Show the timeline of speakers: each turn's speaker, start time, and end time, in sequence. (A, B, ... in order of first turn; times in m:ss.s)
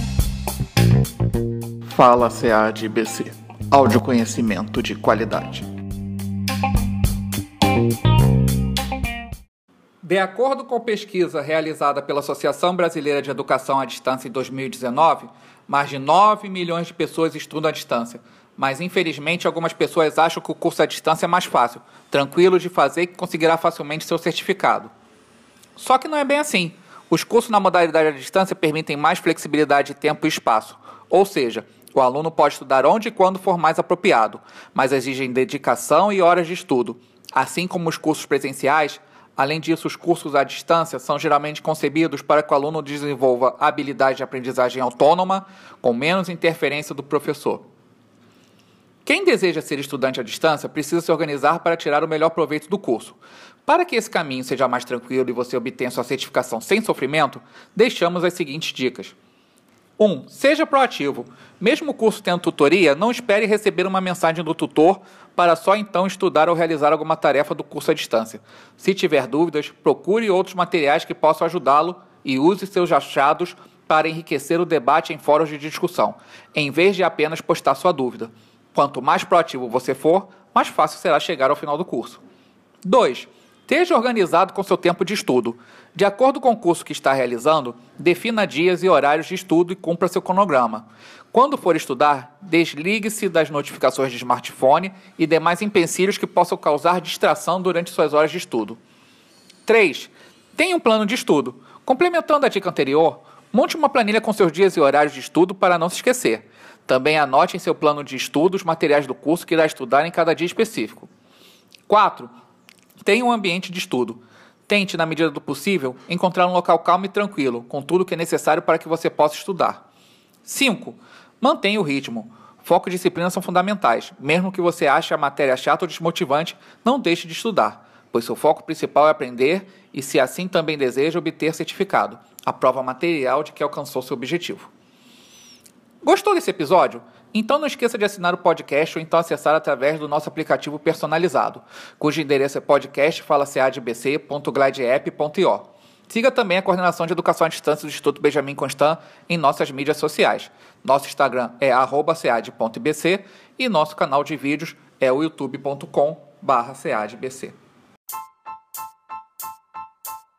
0:01.9-0:05.6 A
0:10.0-0:24.9 A
0:25.8-0:47.6 A
0:49.0-0:59.1 A
1:00.0-1:22.2 A
1:22.8-1:38.8 A
1:39.6-1:51.1 A
1:51.9-1:52.3 A
1:53.0-1:59.8 A
2:00.4-2:14.7 A
2:16.0-2:37.5 A